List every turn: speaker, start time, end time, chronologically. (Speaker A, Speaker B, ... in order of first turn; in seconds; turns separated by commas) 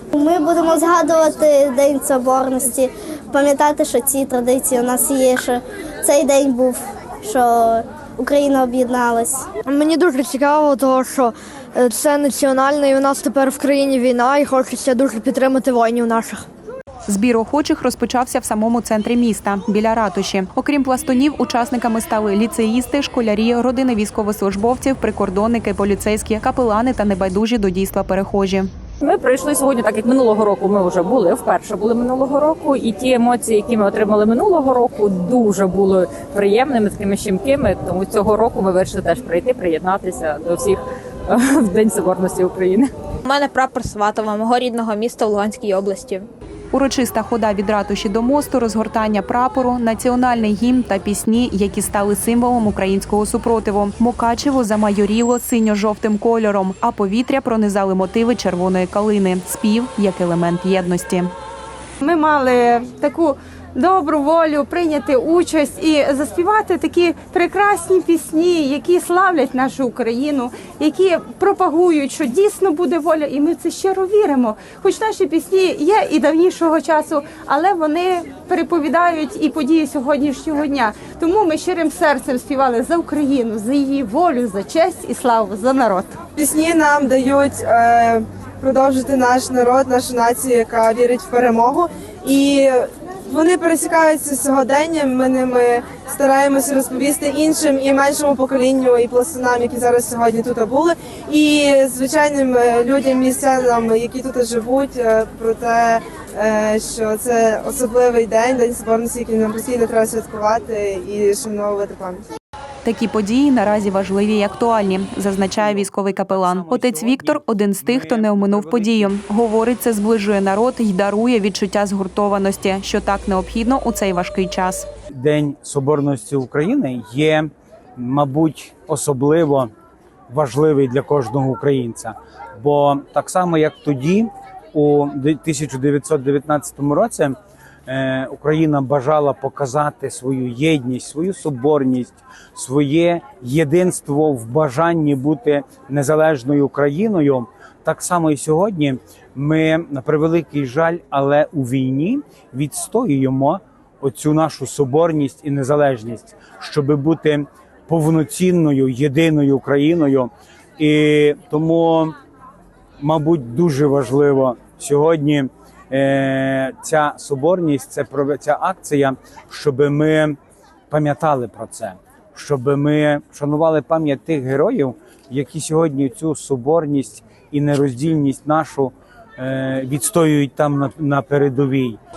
Speaker A: 0.1-9.5, Speaker B: 9.7-16.4, Speaker C: 17.1-28.7, Speaker D: 29.0-42.9, Speaker E: 43.2-46.3, Speaker C: 46.7-61.3, Speaker F: 62.0-86.2, Speaker G: 86.4-112.2, Speaker C: 112.8-124.9, Speaker H: 115.6-119.1, Speaker H: 125.1-129.7, Speaker H: 130.3-162.2, Speaker H: 163.0-170.4, Speaker H: 170.9-182.0